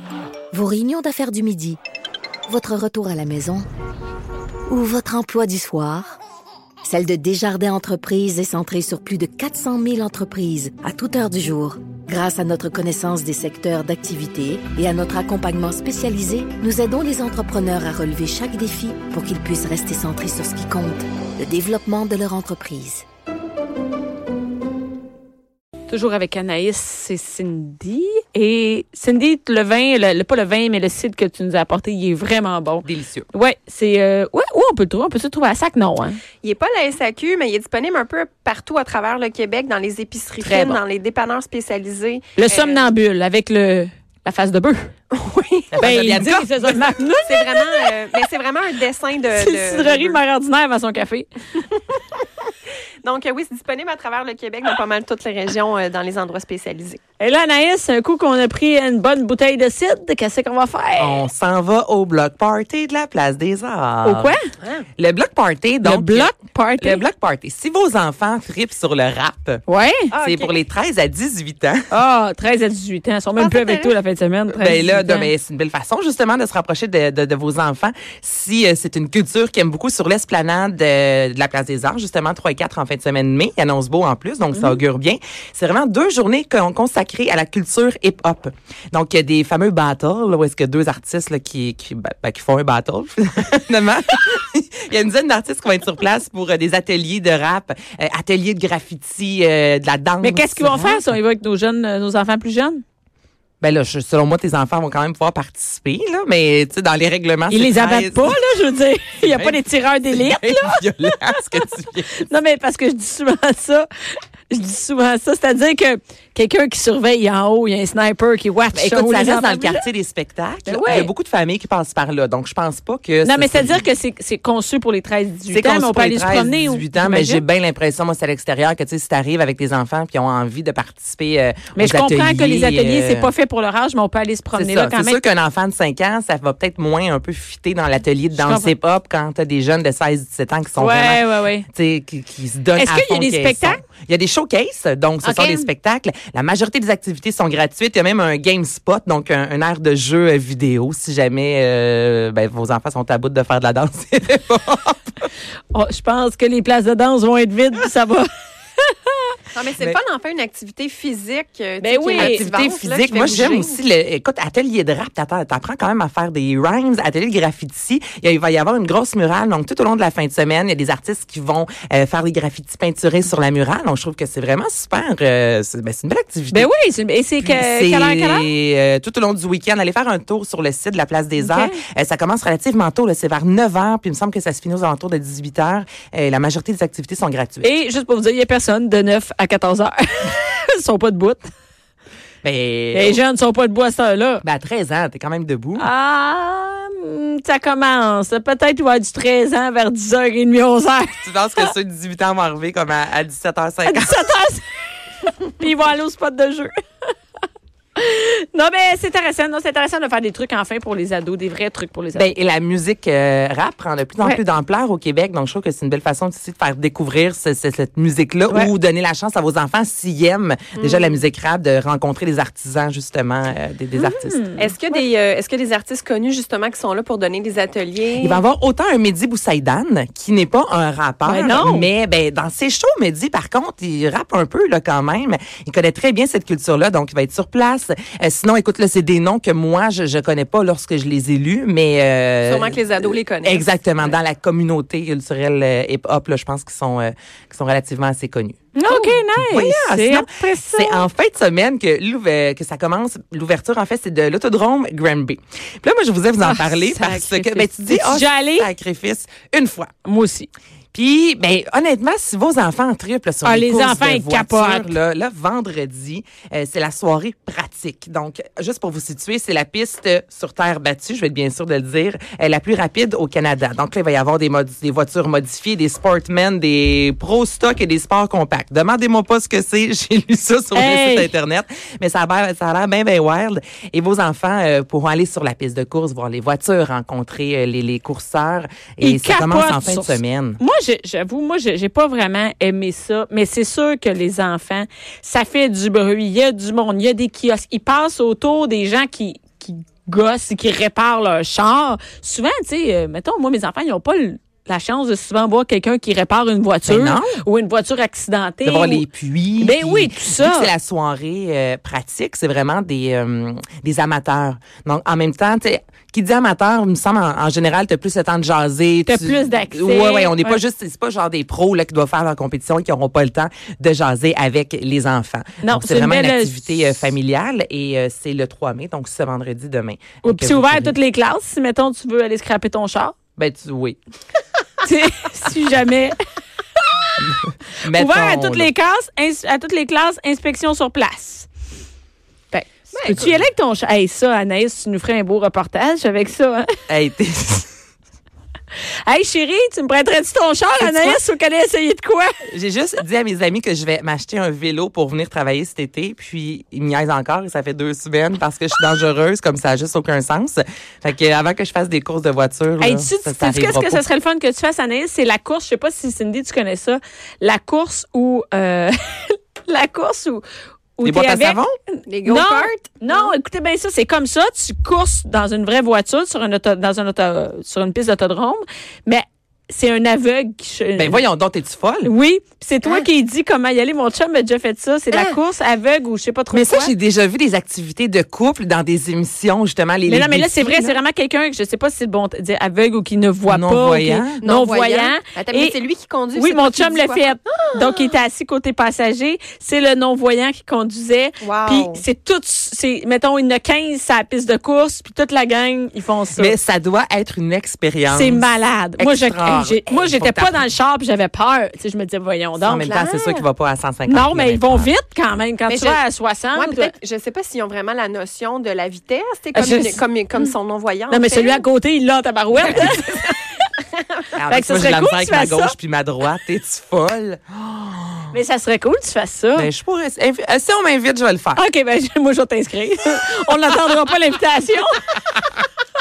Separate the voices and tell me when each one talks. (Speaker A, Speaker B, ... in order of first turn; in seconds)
Speaker A: 0.5-1.8, 2.5-3.6, 4.7-6.1, 6.8-23.0
Speaker B: 25.9-36.2, 40.4-40.8, 42.4-44.9, 45.8-47.9, 49.3-51.3, 57.2-61.2, 64.0-64.4, 65.8-67.0, 69.7-70.2, 71.9-75.3, 84.5-84.8, 100.2-102.8, 107.5-113.9, 114.5-119.8, 120.7-121.1, 123.2-127.4, 131.8-135.2, 138.3-138.7, 140.8-141.7, 142.8-143.8, 145.2-145.7, 155.7-158.3, 158.8-159.3, 161.8-162.5, 176.5-178.5, 181.4-181.8, 187.6-191.5, 192.9-194.4, 195.8-201.7, 203.9-204.7, 205.2-206.7, 208.0-212.3, 224.0-224.7, 231.2-231.9, 248.8-251.1, 256.4-258.7, 260.0-260.5, 263.4-265.0, 280.7-281.3, 289.0-309.1, 309.6-310.7, 319.1-320.6, 325.6-326.9, 330.2-333.2, 334.8-336.2, 336.8-337.4, 337.9-341.5, 342.5-346.7, 349.1-352.4, 362.8-370.4, 371.0-381.2, 382.0-386.9, 390.1-395.8, 396.4-406.5, 408.1-413.1, 414.1-416.9, 419.5-420.4, 421.1-423.4, 424.5-425.8, 428.3-429.7, 431.6-435.1
Speaker C: 32.8-33.3, 45.7-46.8, 61.0-64.4, 65.0-69.6, 70.1-71.9, 74.5-101.1, 103.6-108.4, 109.2-112.2, 118.7-123.8, 125.5-133.3, 134.6-155.3, 162.2-176.7, 177.4-187.7, 192.4-193.2, 194.4-195.9, 201.2-204.3, 212.2-224.5, 228.2-259.9, 260.9-290.6, 306.9-307.4, 308.6-330.9, 333.4-334.0, 337.2-338.7, 346.9-347.7, 350.8-351.2, 352.5-364.0, 371.0-371.8, 381.0-382.1, 386.5-391.0, 393.5-394.4, 406.4-410.7, 412.6-414.9, 422.7-422.9, 424.4-428.3, 429.6-431.6, 435.4-435.6
Speaker D: 36.4-42.9, 45.1-45.8, 47.3-50.2, 53.0-57.0, 70.1-70.6, 73.4-73.9, 159.5-163.8, 220.8-221.2, 224.6-228.4, 242.4-244.2, 342.9-343.2, 372.1-373.3, 385.1-385.4, 394.4-398.1, 401.4-402.0, 412.9-413.4, 415.7-416.0, 416.6-421.6, 422.6-423.4